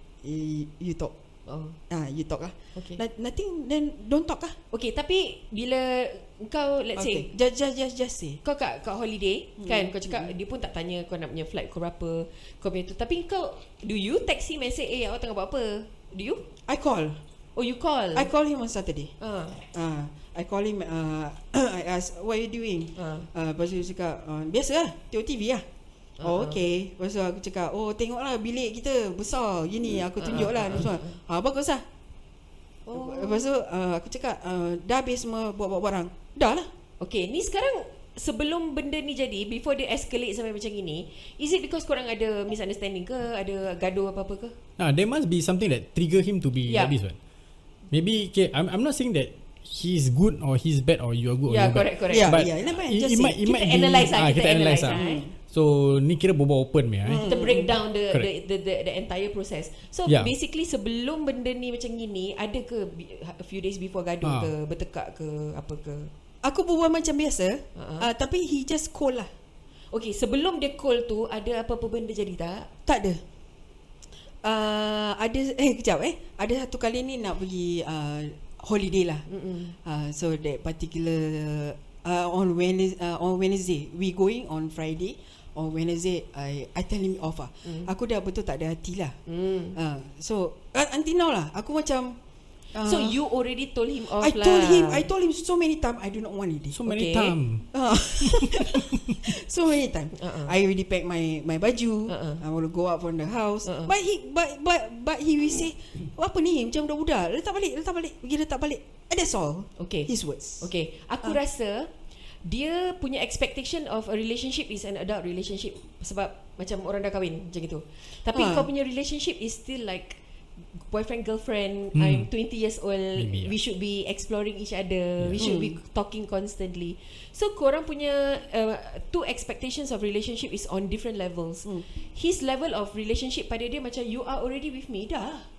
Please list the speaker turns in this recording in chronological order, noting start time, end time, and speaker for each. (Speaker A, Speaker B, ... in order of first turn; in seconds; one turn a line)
Speaker A: 0.2-1.1
Speaker B: 1.4-1.8
Speaker A: 1.9-4.5
Speaker B: 2.7-3.0
Speaker B: 4.7-7.3
Speaker A: 6.9-8.4
Speaker B: 8.4-16.4
Speaker A: 9.6-10.3
Speaker A: 16.6-17.2
Speaker B: 17.5-18.3
Speaker A: 18.1-25.6
Speaker B: 19.2-19.6
Speaker B: 22.9-23.3
Speaker B: 26.2-26.6
Speaker A: 26.2-31.8
Speaker B: 30.2-31.1
Speaker B: 32.9-33.5
Speaker A: 32.9-36.7
Speaker B: 37.0-44.5
Speaker C: 44.8-47.1
Speaker B: 46.7-46.9
Speaker C: 47.9-57.2
Speaker B: 51.5-52.4
Speaker A: 52.1-53.4
Speaker B: 53.4-55.2
Speaker A: 54.9-55.3
Speaker A: 57.0-57.7
Speaker B: 57.2-66.1
Speaker C: 64.2-64.5
Speaker A: 66.4-69.3
Speaker B: 67.8-68.1
Speaker B: 69.9-72.7
Speaker A: 72.8-73.2
Speaker A: 74.4-79.2
Speaker B: 79.3-79.7
Speaker A: 79.8-89.2
Speaker B: 87.6-87.9
Speaker B: 89.3-89.8
Speaker A: 89.7-92.2
Speaker A: 92.7-93.2
Speaker B: 92.8-95.1
Speaker A: 94.1-96.8
Speaker C: 96.7-99.1
Speaker B: 96.9-97.3
Speaker A: 97.7-110.7
Speaker B: 100.1-100.5
Speaker B: 102.1-102.4
Speaker B: 103.6-103.9
Speaker B: 109.8-111.9
Speaker B: 112.4-120.2
Speaker A: 118.3-118.7
Speaker B: 120.7-135.5
Speaker C: 121.9-122.3
Speaker C: 123.2-123.5
Speaker C: 125.2-125.5
Speaker A: 125.4-125.8